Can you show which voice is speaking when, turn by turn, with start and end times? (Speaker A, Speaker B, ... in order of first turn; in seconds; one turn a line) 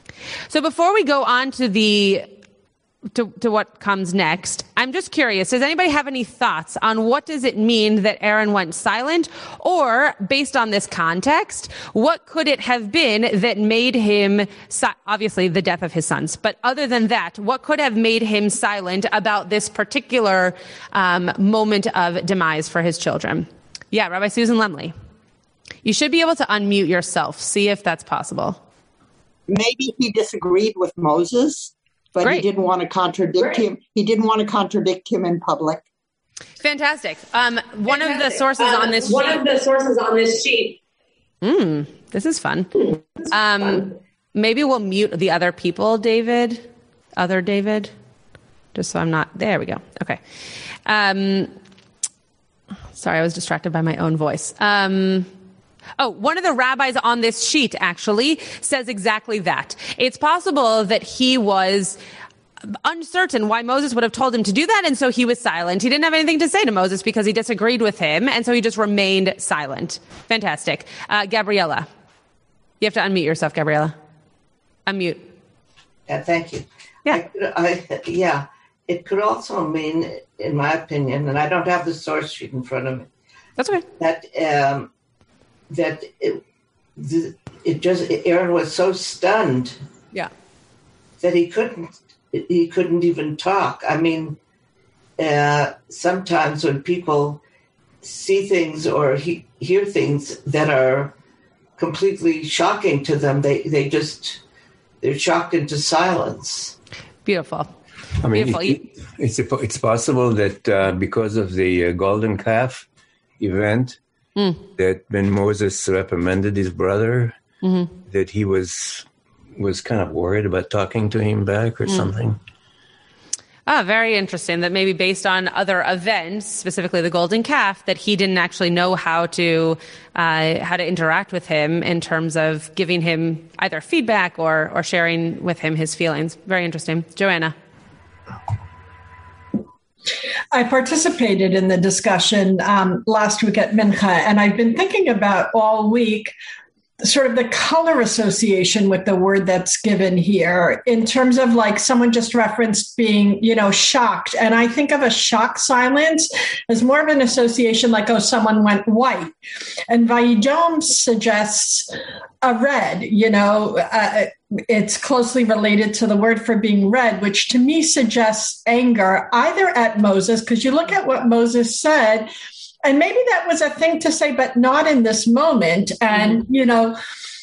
Speaker A: 0.5-2.2
Speaker A: 3.1-24.9
Speaker A: 25.8-28.6
Speaker B: 29.5-35.9
Speaker A: 36.6-39.4
Speaker C: 37.9-40.8
Speaker A: 41.4-42.7
Speaker A: 43.3-46.6
Speaker A: 47.1-47.9
Speaker A: 48.7-50.2
Speaker A: 50.9-51.5
Speaker A: 52.9-55.3
Speaker A: 56.0-62.0
Speaker A: 62.8-71.9
Speaker A: 72.8-73.9
Speaker A: 74.8-75.2
Speaker D: 76.1-83.1
Speaker A: 83.6-83.8
Speaker D: 84.0-84.9
Speaker D: 85.7-86.4
Speaker D: 87.0-89.8
Speaker D: 91.2-94.4
Speaker D: 95.2-97.4
Speaker D: 98.0-101.1
Speaker D: 101.8-104.4
Speaker D: 105.0-106.7
Speaker A: 107.2-107.7
Speaker E: 108.2-112.8
Speaker A: 108.3-108.8
Speaker E: 113.4-114.0
Speaker E: 114.8-117.4
Speaker A: 117.6-117.9
Speaker E: 118.1-122.4
Speaker A: 123.7-137.5
Speaker F: 140.5-146.3
Speaker F: 147.0-159.3
Speaker F: 159.9-161.9
Speaker F: 162.4-172.3
Speaker F: 172.8-177.0
Speaker A: 176.1-176.4